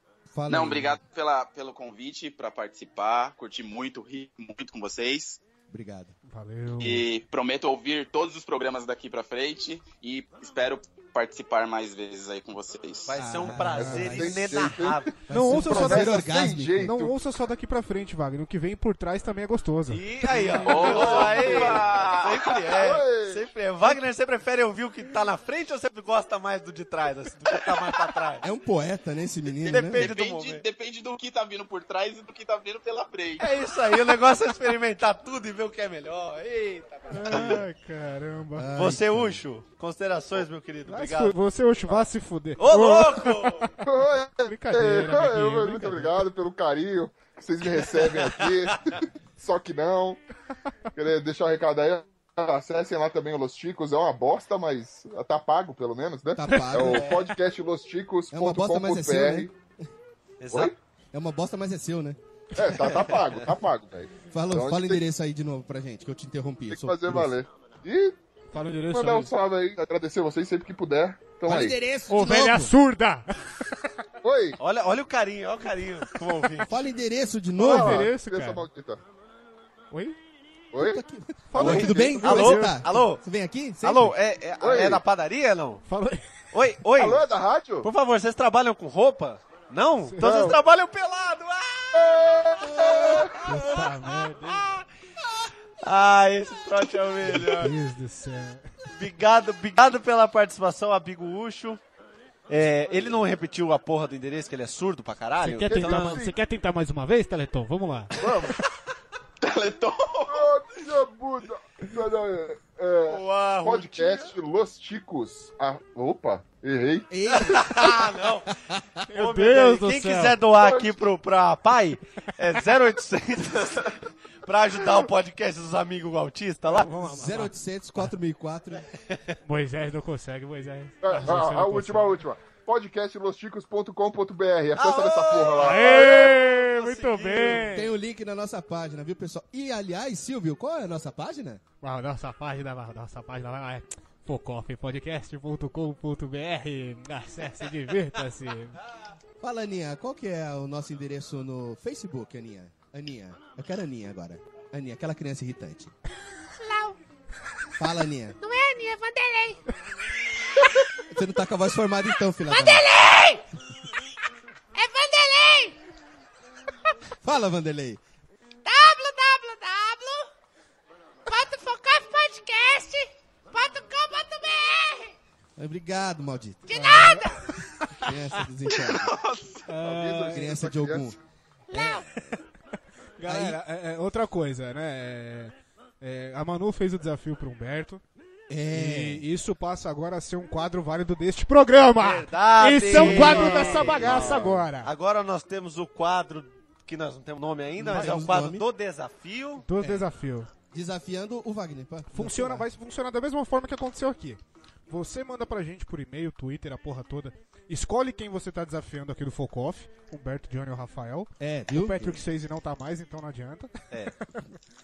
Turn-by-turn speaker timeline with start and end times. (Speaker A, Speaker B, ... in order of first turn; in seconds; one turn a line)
Speaker A: 0.3-1.0
Speaker B: 0.5-5.4
Speaker A: 5.7-6.2
Speaker C: 6.3-7.0
Speaker B: 6.8-13.1
Speaker D: 13.1-15.2
Speaker A: 13.1-17.0
Speaker E: 13.7-17.1
Speaker C: 13.8-14.1
Speaker C: 15.3-16.3
Speaker C: 16.8-21.4
Speaker D: 19.9-28.4
Speaker B: 20.6-22.7
Speaker E: 20.8-22.0
Speaker E: 22.6-23.4
Speaker A: 28.4-30.1
Speaker D: 29.6-30.6
Speaker B: 29.7-33.6
Speaker D: 33.4-37.6
Speaker C: 37.1-38.7
Speaker A: 38.5-39.4
Speaker D: 38.7-42.1
Speaker C: 40.9-43.7
Speaker D: 42.6-43.7
Speaker E: 43.8-50.2
Speaker C: 44.4-46.2
Speaker D: 47.9-48.5
Speaker E: 50.9-59.5
Speaker A: 56.3-57.1
Speaker D: 56.7-57.3
Speaker A: 58.3-59.5
Speaker D: 60.4-60.7
Speaker A: 61.1-62.2
Speaker E: 62.5-65.0
Speaker D: 62.8-63.4
Speaker A: 64.3-67.3
Speaker E: 66.7-68.2
Speaker C: 68.5-69.3
Speaker E: 68.9-71.8
Speaker A: 71.5-72.7
Speaker C: 72.1-73.9
Speaker E: 74.2-74.6
Speaker D: 74.6-76.8
Speaker A: 76.7-78.1
Speaker E: 77.6-79.0
Speaker C: 77.6-78.7
Speaker C: 79.9-80.2
Speaker E: 80.7-81.0
Speaker A: 80.8-84.2
Speaker C: 81.5-83.1
Speaker D: 81.5-83.2
Speaker D: 83.8-85.8
Speaker E: 84.6-85.0
Speaker C: 85.9-86.2
Speaker D: 86.5-87.2
Speaker E: 87.0-87.9
Speaker D: 87.8-97.7
Speaker C: 90.1-90.5
Speaker E: 90.2-90.6
Speaker E: 91.9-93.4
Speaker C: 93.4-94.7
Speaker C: 97.3-98.7
Speaker D: 98.9-101.8
Speaker D: 102.5-106.2
Speaker C: 105.4-108.5
Speaker E: 105.7-106.3
Speaker E: 108.2-108.6
Speaker B: 109.4-110.5
Speaker E: 110.3-117.1
Speaker D: 113.1-114.3
Speaker A: 117.1-119.1
Speaker D: 117.3-118.5
Speaker C: 119.1-120.4
Speaker D: 119.1-126.9
Speaker E: 120.6-120.9
Speaker C: 126.7-127.5
Speaker A: 127.0-128.8
Speaker D: 129.1-129.3
Speaker C: 129.4-132.2
Speaker E: 131.0-136.3
Speaker D: 134.8-137.7
Speaker C: 135.6-137.9
Speaker A: 137.7-141.6
Speaker C: 141.8-148.8
Speaker A: 149.4-155.9
Speaker F: 156.5-157.0
Speaker A: 157.8-158.4
Speaker F: 158.4-159.6
Speaker A: 161.1-162.9
Speaker F: 162.4-163.4
Speaker F: 164.7-165.8
Speaker A: 167.2-168.0
Speaker F: 168.6-170.3
Speaker F: 171.3-175.1
Speaker A: 175.6-176.7
Speaker F: 176.7-177.5
Speaker C: 176.7-178.1
Speaker A: 178.0-179.1
Speaker B: 178.7-179.7
Speaker C: 179.7-180.5
Speaker E: 179.7-181.1
Speaker A: 180.3-181.2
Speaker F: 181.7-182.1
Speaker A: 181.7-182.1
Speaker C: 183.2-188.0
Speaker A: 183.2-183.6
Speaker A: 188.5-189.2
Speaker C: 188.7-194.9
Speaker D: 192.0-199.9
Speaker A: 192.8-194.6
Speaker A: 197.8-198.7
Speaker C: 197.9-198.2
Speaker C: 199.6-200.5
Speaker A: 200.7-202.7
Speaker C: 202.1-214.3
Speaker A: 211.4-212.2